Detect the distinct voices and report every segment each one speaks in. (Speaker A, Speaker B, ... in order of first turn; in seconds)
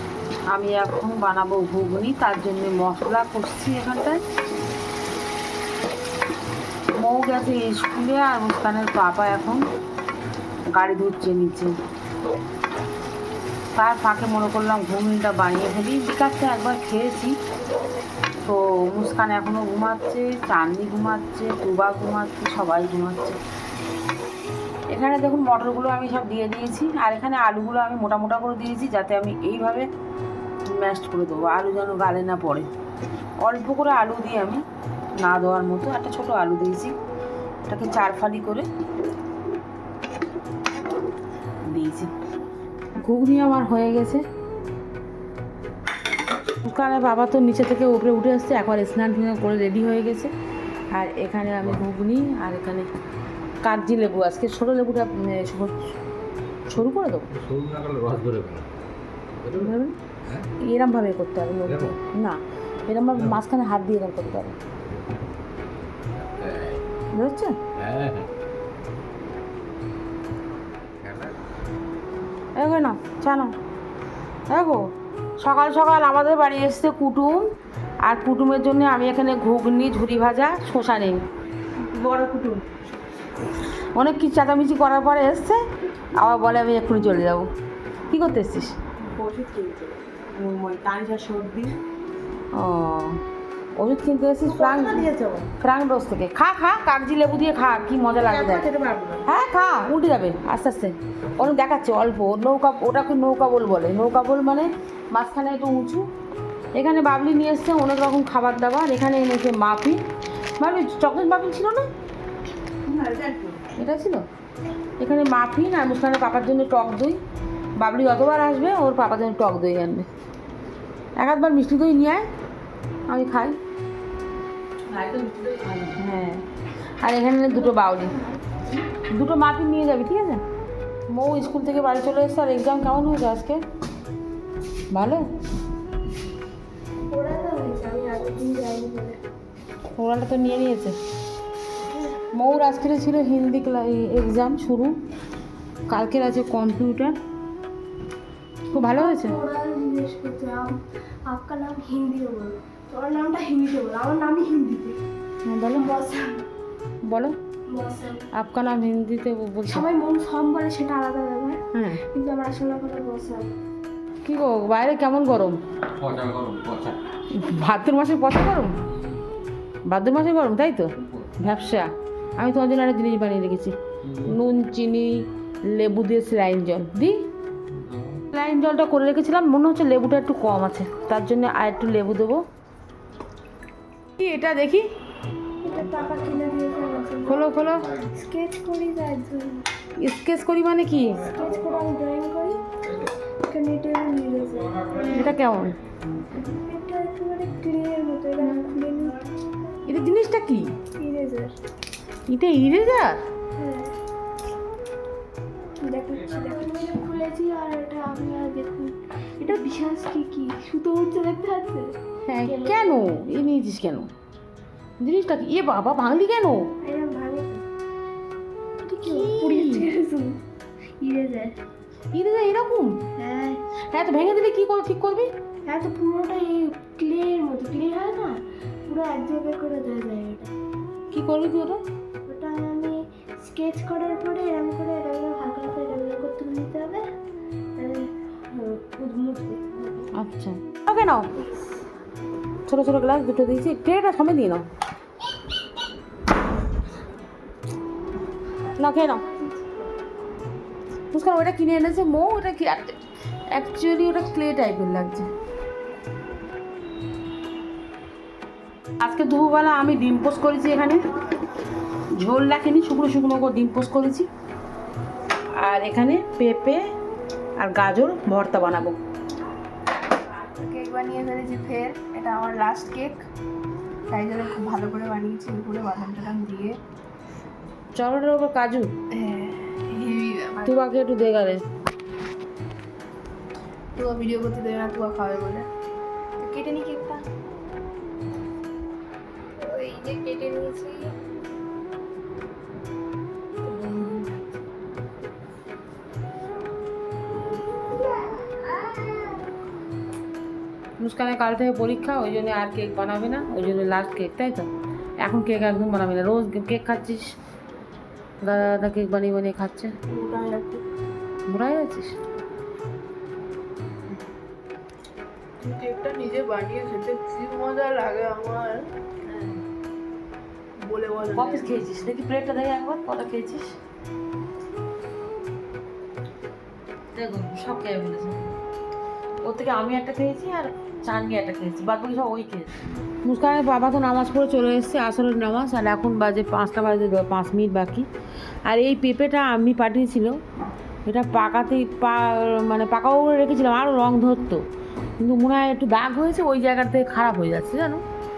Speaker A: 0.5-4.2, 7.0-9.6, 10.7-11.7, 13.7-17.3, 18.4-23.4, 24.9-29.9, 30.7-32.7, 33.4-34.6, 35.2-36.9, 37.6-38.7, 41.6-42.1, 43.0-44.2, 46.6-50.3, 50.9-52.9, 53.6-55.9, 56.7-57.3, 59.5-59.9, 60.6-64.5, 67.1-67.6, 72.5-73.5, 74.5-81.3, 81.9-82.6, 83.9-87.5, 88.1-88.7, 90.3-91.7, 92.5-93.2, 93.8-106.1, 106.7-110.0, 110.6-111.9, 113.8-114.2, 115.0-117.2, 117.8-120.1, 121.2-122.3, 123.1-123.6, 124.9-126.4, 127.0-128.1, 129.1-130.4, 131.1-133.6, 134.9-135.2, 140.0-141.0, 142.3-145.0, 145.9-147.2, 148.7-149.4, 155.4-155.9, 157.1-157.3, 158.3-159.9, 161.7-162.0, 164.2-165.6, 167.3-168.7, 169.9-177.2, 178.3-182.4, 184.2-184.9, 187.2-187.9, 190.0-191.3, 195.1-195.8, 199.9-200.7, 202.3-203.2, 212.3-214.1, 215.0-216.7, 219.0-219.9, 222.1-223.0, 223.9-225.3, 231.1-231.8, 240.1-241.3, 242.7-244.7, 248.8-249.2, 251.1-253.0, 253.5-255.3, 259.0-261.0, 262.1-264.3, 265.5-266.8, 267.6-269.0, 277.9-278.9, 280.6-281.6, 301.0-304.7, 305.2-307.3, 308.4-309.9, 311.5-312.2, 319.3-319.5, 321.3-323.7, 327.1-328.6, 329.4-338.1, 338.7-340.4, 341.1-344.6, 345.2-348.0
Speaker B: 57.3-58.7, 59.4-59.7, 61.6-62.0, 66.1-66.8, 67.7-68.3, 71.0-71.3, 166.0-167.0, 174.0-174.4, 177.8-178.2
Speaker C: 112.9-113.4, 270.5-273.2, 274.1-276.8, 279.1-280.7, 283.9-285.7, 310.1-310.8, 315.6-318.9, 320.8-321.7
Speaker D: 127.6-128.8, 137.1-139.2, 148.7-155.0, 155.7-156.4, 157.7-158.3, 159.7-163.5, 185.6-189.7, 191.2-192.6, 193.5-195.4, 196.3-199.2, 200.9-201.5, 203.6-203.9, 205.8-211.9, 212.4-212.9, 216.8-217.6, 218.9-220.4, 221.0-221.6, 223.2-223.6, 225.7-228.3, 228.9-230.5, 232.2-237.0, 237.8-240.1, 241.3-241.8, 249.2-249.8, 286.4-287.2, 289.6-291.1, 293.6-294.4, 298.8-299.3